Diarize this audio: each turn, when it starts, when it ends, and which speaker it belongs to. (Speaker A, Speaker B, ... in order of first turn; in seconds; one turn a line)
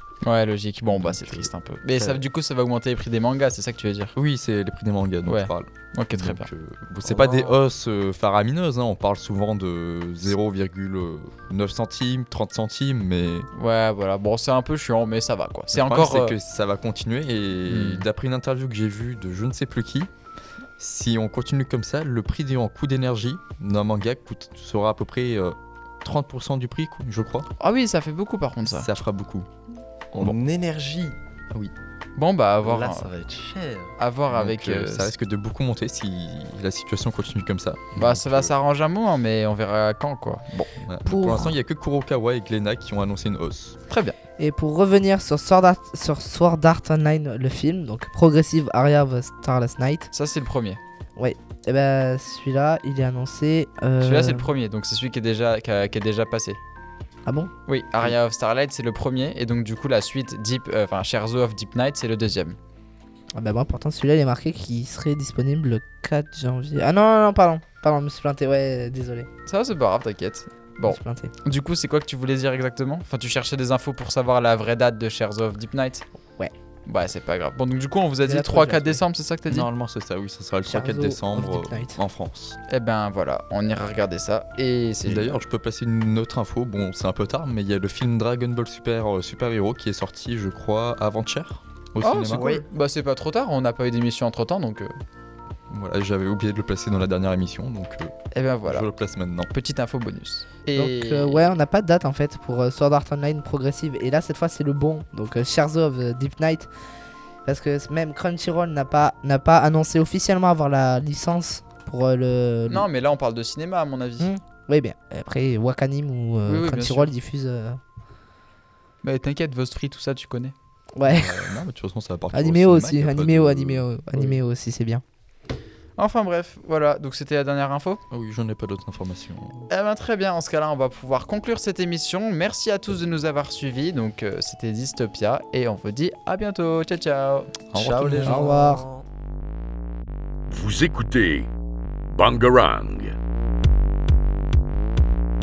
Speaker A: 0.2-4.1
Speaker B: 1.0-2.1
Speaker B: 4.2-13.5
Speaker A: 5.3-6.5
Speaker A: 7.1-7.5
Speaker C: 7.1-7.5
Speaker A: 13.5-16.4
Speaker B: 15.7-20.1
Speaker A: 17.7-18.1
Speaker B: 20.8-27.5
Speaker A: 27.6-28.9
Speaker B: 28.7-29.5
Speaker C: 30.1-31.2
Speaker A: 32.2-33.1
Speaker C: 32.6-33.9
Speaker A: 34.0-35.1
Speaker B: 34.3-38.5
Speaker A: 38.0-40.7
Speaker B: 40.8-43.8
Speaker D: 41.0-41.5
Speaker A: 43.9-44.2
Speaker D: 44.4-50.1
Speaker A: 50.1-50.8
Speaker D: 51.2-54.5
Speaker A: 54.0-56.6
Speaker D: 57.3-57.5
Speaker A: 57.7-62.6
Speaker D: 63.4-69.3
Speaker A: 69.5-76.0
Speaker D: 70.9-71.3
Speaker A: 76.9-79.7
Speaker D: 78.2-79.0
Speaker B: 79.5-82.6
Speaker D: 80.7-82.0
Speaker A: 82.7-85.3
Speaker B: 85.1-92.5
Speaker A: 92.0-94.9
Speaker C: 92.3-92.7
Speaker B: 95.7-98.1
Speaker A: 98.3-98.9
Speaker B: 98.7-99.5
Speaker A: 99.5-101.5
Speaker D: 100.8-106.7
Speaker D: 107.5-112.9
Speaker A: 112.7-114.3
Speaker D: 114.2-117.8
Speaker A: 116.5-117.1
Speaker A: 119.0-120.5
Speaker D: 121.0-121.6
Speaker B: 121.0-123.9
Speaker D: 122.3-125.0
Speaker A: 126.0-128.0
Speaker B: 128.1-129.7
Speaker A: 129.7-138.5
Speaker C: 137.7-139.1
Speaker D: 138.2-138.8
Speaker E: 140.5-141.5
Speaker E: 142.1-143.2